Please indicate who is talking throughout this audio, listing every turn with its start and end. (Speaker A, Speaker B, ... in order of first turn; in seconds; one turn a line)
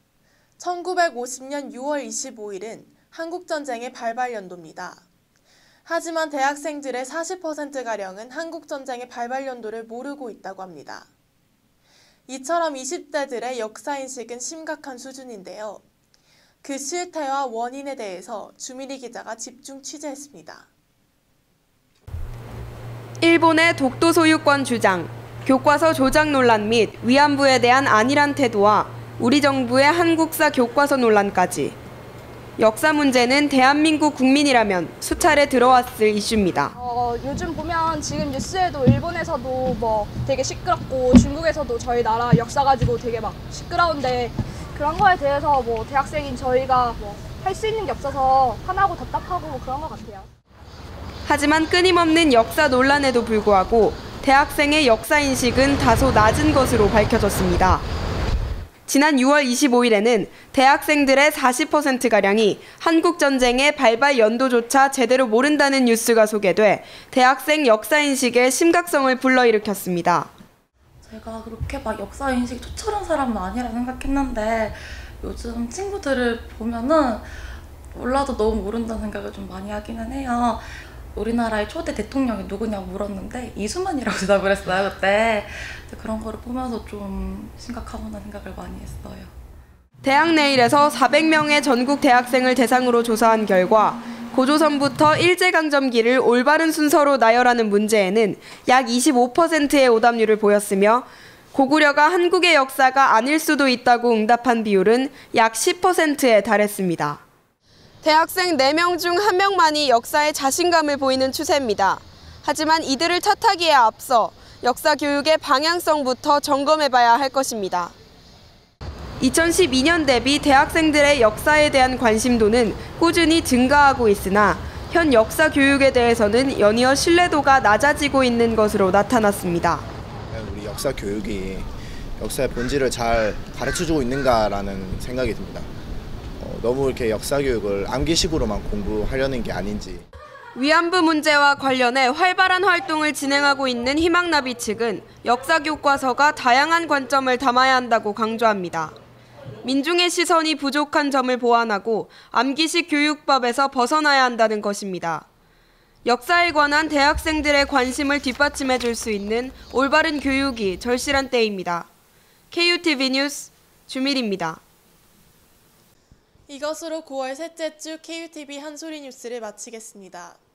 Speaker A: 0.6-5.0
Speaker A: 5.8-11.1
Speaker A: 12.3-15.8
Speaker A: 16.6-20.6
Speaker B: 23.2-31.8
Speaker B: 32.6-36.7
Speaker C: 36.8-50.3
Speaker B: 51.2-57.9
Speaker B: 58.9-70.3
Speaker D: 71.0-89.3
Speaker B: 90.0-107.2
Speaker B: 108.0-117.9
Speaker B: 119.2-129.8
Speaker E: 130.3-135.7
Speaker E: 136.4-140.0
Speaker B: 140.6-148.9
Speaker B: 149.6-155.2
Speaker B: 156.1-161.9
Speaker B: 162.5-164.6
Speaker A: 166.5-170.4